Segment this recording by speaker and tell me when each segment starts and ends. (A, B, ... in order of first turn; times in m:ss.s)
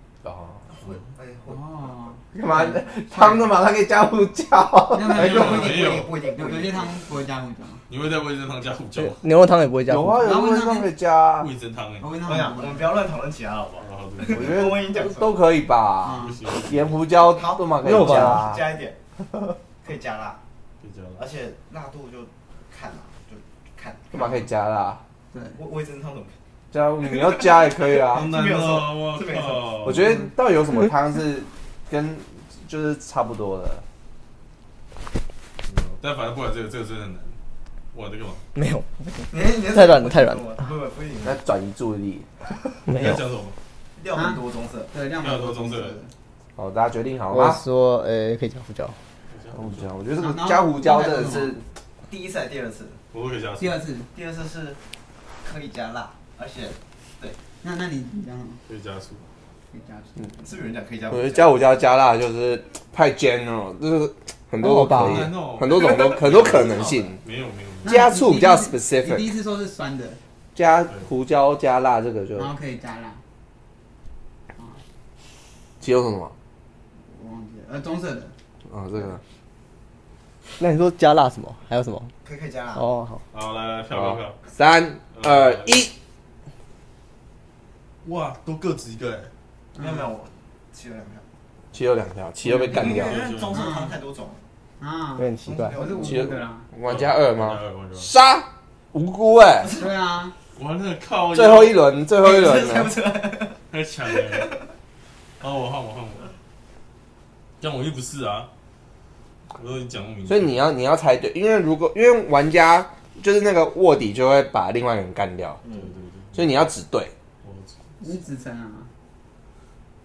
0:00.2-0:00.6 A
0:00.7-0:01.9 B
0:01.5-0:03.5 C
0:02.3-0:05.3 A
0:04.9-0:07.8 C
0:05.1-0:06.1 D
0:05.1-0:07.1 B
0:07.9-0:09.2 D
0:09.1-0:10.3 E
0:09.9-0:11.5 A
0:10.2-0:10.9 C
0:11.4-0:12.3 D
0:12.0-0:13.0 C
0:12.2-0:15.4 B
0:13.8-0:14.9 D
0:14.3-0:18.6 A
0:16.0-0:16.4 C
0:16.1-0:17.1 D
0:17.3-0:19.0 B
0:17.8-0:18.4 E
0:19.8-0:20.4 B
0:20.8-0:21.2 D
0:21.2-0:24.4 B
0:24.1-0:25.0 A
0:25.3-0:25.6 C
0:25.6-0:26.4 B
0:26.7-0:28.3 A
0:27.0-0:29.9 B
0:28.1-0:30.2 D
0:29.8-0:33.8 A
0:30.0-0:30.3 C
0:35.6-0:37.4 D
0:37.9-0:38.4 D
0:38.6-0:40.6 E
0:39.3-0:41.4 B
0:41.2-0:42.6 A
0:42.9-0:43.2 E
0:42.9-0:43.6 D
0:44.0-0:44.9 B
0:44.1-0:46.1 C
0:45.2-0:46.0 D
0:46.6-0:47.6 A
0:47.3-0:49.0 E
0:49.3-0:49.9 D
0:49.5-0:51.6 A
0:50.2-0:51.5 C
0:52.1-0:53.0 B
0:53.1-0:53.8 D
0:53.6-0:54.1 C
0:54.1-0:54.8 B
0:55.4-0:57.4 B
0:57.6-0:58.6 C
0:58.7-0:59.2 D
0:59.7-1:00.5 C
1:00.4-1:01.6 B
1:01.1-1:07.2 A
1:04.6-1:05.3 E
1:04.8-1:08.0 D
1:05.6-1:07.2 B
1:07.8-1:09.3 A
1:07.8-1:10.2 C
1:10.6-1:12.5 A
1:12.4-1:13.2 C
1:15.8-1:16.3 A
1:17.0-1:18.4 C
1:18.7-1:19.2 A
1:20.6-1:22.1 E
1:22.2-1:22.9 B
1:22.8-1:23.2 E
1:23.3-1:24.4 D
1:23.9-1:25.9 A
1:25.1-1:25.8 D
1:28.0-1:29.3 D
1:29.7-1:30.1 C
1:29.8-1:31.2 B
1:31.7-1:33.2 A
1:32.7-1:34.4 B
1:32.7-1:33.8 D
1:33.5-1:34.0 C
1:34.8-1:36.7 C
1:35.2-1:35.8 E
1:35.4-1:36.4 B
1:36.0-1:39.7 A
1:36.8-1:38.1 D
1:39.8-1:40.4 C
1:40.6-1:41.9 D
1:41.3-1:43.0 A
1:42.2-1:43.6 B
1:43.7-1:44.6 D
1:44.1-1:44.7 B
1:45.4-1:46.3 D
1:47.6-1:48.5 D
1:49.6-1:50.6 D
1:50.3-1:55.6 A
1:55.6-1:56.6 D
1:56.3-1:57.1 A
1:57.4-1:58.1 D
1:58.0-1:58.9 C